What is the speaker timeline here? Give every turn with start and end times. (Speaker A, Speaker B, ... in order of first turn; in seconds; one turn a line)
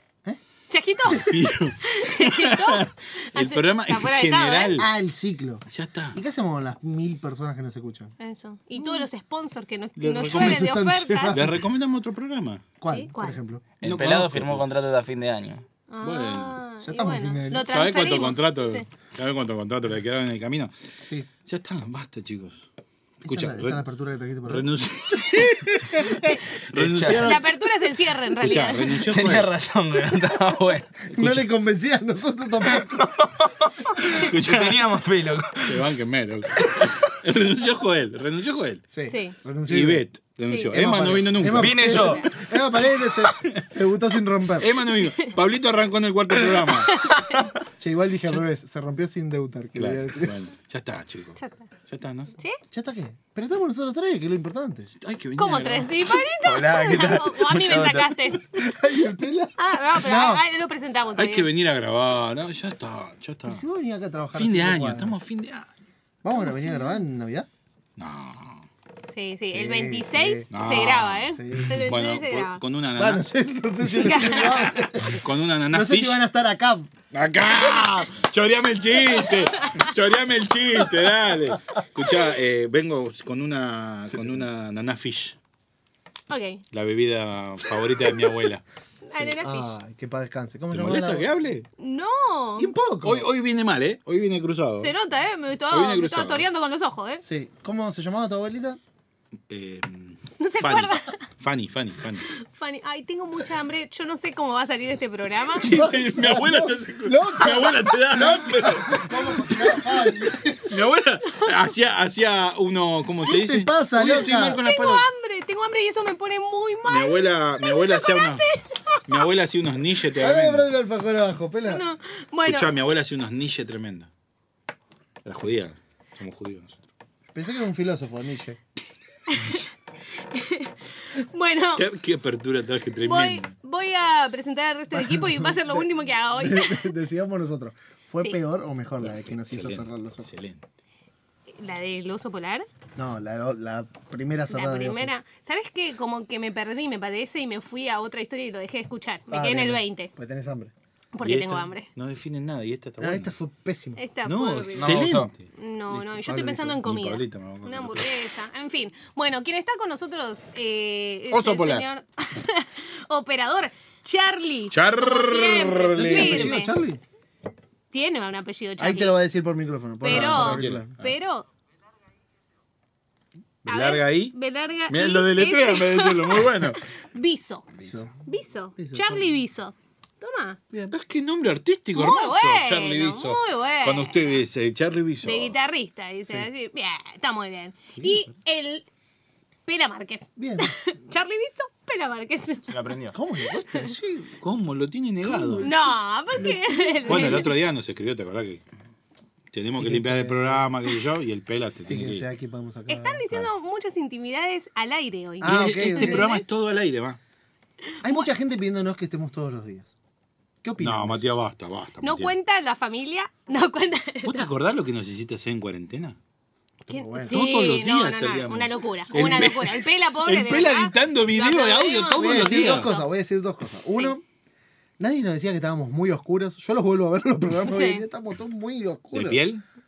Speaker A: 0.7-4.8
Speaker B: 1.1-4.9
Speaker C: 4.8-8.1
Speaker B: 5.7-6.2
Speaker A: 8.2-11.3
Speaker B: 9.9-10.8
Speaker C: 10.3-11.6
Speaker B: 11.3-12.7
Speaker C: 12.8-13.6
Speaker A: 12.8-13.4
Speaker D: 13.8-15.6
Speaker B: 13.8-14.6
Speaker A: 15.9-18.8
Speaker B: 16.0-16.6
Speaker C: 16.8-17.7
Speaker B: 17.7-20.7
Speaker C: 21.0-21.3
Speaker B: 21.4-22.7
Speaker C: 23.2-24.7
Speaker B: 23.2-23.8
Speaker B: 24.4-27.7
Speaker D: 26.7-27.4
Speaker A: 27.2-29.0
Speaker B: 28.3-29.5
Speaker D: 29.0-30.9
Speaker C: 31.1-33.1
Speaker B: 31.1-31.4
Speaker D: 32.6-35.9
Speaker B: 34.1-34.8
Speaker B: 35.6-38.8
Speaker D: 36.6-36.9
Speaker C: 38.9-40.0
Speaker A: 39.1-39.4
Speaker B: 39.7-42.1
Speaker A: 40.5-40.7
Speaker C: 40.7-44.7
Speaker D: 41.5-42.4
Speaker A: 41.9-42.3
Speaker B: 43.3-43.6
Speaker B: 44.6-47.1
Speaker A: 45.0-45.3
Speaker A: 46.9-47.5
Speaker C: 47.8-50.4
Speaker B: 49.8-52.3
Speaker A: 51.4-51.7
Speaker C: 52.7-54.9
Speaker B: 55.0-56.2
Speaker A: 55.4-58.4
Speaker D: 56.4-58.3
Speaker C: 58.5-60.4
Speaker A: 59.6-61.5
Speaker B: 61.1-63.6
Speaker C: 63.5-65.2
Speaker B: 64.3-65.7
Speaker C: 66.2-67.5
Speaker A: 66.3-67.0
Speaker B: 68.0-68.7
Speaker A: 69.0-72.6
Speaker C: 69.5-70.5
Speaker B: 70.5-73.2
Speaker C: 71.3-71.9
Speaker C: 73.0-76.9
Speaker A: 73.9-74.7
Speaker B: 75.1-76.2
Speaker B: 77.1-85.3
Speaker A: 79.2-79.9
Speaker A: 86.3-86.6
Speaker B: 86.7-88.6
Speaker A: 89.0-89.7
Speaker C: 89.1-91.3
Speaker B: 90.7-91.7
Speaker A: 91.8-92.7
Speaker C: 92.6-93.3
Speaker B: 93.0-94.9
Speaker A: 94.8-97.2
Speaker B: 95.7-96.5
Speaker C: 97.2-98.8
Speaker B: 99.5-102.3
Speaker A: 100.4-101.2
Speaker A: 102.3-105.9
Speaker B: 105.5-115.0
Speaker C: 105.6-110.7
Speaker C: 113.2-114.6
Speaker A: 114.0-119.2
Speaker B: 116.8-118.4
Speaker B: 119.0-120.7
Speaker C: 120.2-121.8
Speaker A: 121.7-122.7
Speaker B: 122.4-124.1
Speaker B: 125.2-126.8
Speaker C: 127.3-128.6
Speaker A: 129.3-129.6
Speaker A: 130.2-131.8
Speaker B: 131.8-133.5
Speaker A: 133.0-136.9
Speaker C: 134.9-140.3
Speaker B: 139.0-140.6
Speaker A: 141.5-142.7
Speaker C: 142.9-145.1
Speaker A: 144.5-150.1
Speaker C: 149.3-150.7
Speaker A: 151.1-151.9
Speaker B: 151.2-153.3
Speaker C: 153.0-154.0
Speaker A: 154.0-155.0
Speaker B: 154.2-155.5
Speaker D: 154.8-155.3
Speaker A: 155.5-166.7
Speaker C: 155.9-156.8
Speaker B: 156.7-158.3
Speaker B: 161.3-161.9
Speaker B: 164.7-166.6
Speaker C: 165.9-167.0
Speaker A: 167.9-169.2
Speaker C: 168.8-171.0
Speaker A: 170.0-171.5
Speaker B: 170.0-171.1
Speaker B: 173.6-174.3
Speaker A: 173.7-177.7
Speaker B: 174.9-176.8
Speaker C: 177.8-178.2
Speaker A: 178.2-180.6
Speaker C: 178.8-179.3
Speaker B: 180.9-185.6
Speaker A: 181.9-184.2
Speaker A: 185.2-188.8
Speaker A: 189.7-192.7
Speaker C: 190.4-190.7
Speaker D: 192.7-193.2
Speaker C: 193.1-194.3
Speaker B: 194.4-195.7
Speaker C: 195.2-195.7
Speaker A: 195.6-197.6
Speaker C: 196.3-197.5
Speaker B: 197.1-198.6
Speaker B: 199.5-202.3
Speaker C: 199.8-200.7
Speaker C: 201.9-203.5
Speaker A: 202.9-206.4
Speaker C: 205.4-206.3
Speaker B: 205.4-207.2
Speaker C: 208.0-209.9
Speaker A: 208.0-208.3
Speaker C: 210.6-211.2
Speaker B: 210.8-212.3
Speaker A: 212.0-214.5
Speaker B: 214.2-216.2
Speaker C: 216.9-217.4
Speaker A: 216.9-223.1
Speaker B: 217.3-222.9
Speaker C: 222.2-224.2
Speaker C: 225.0-229.4
Speaker A: 227.7-228.0
Speaker B: 229.1-229.6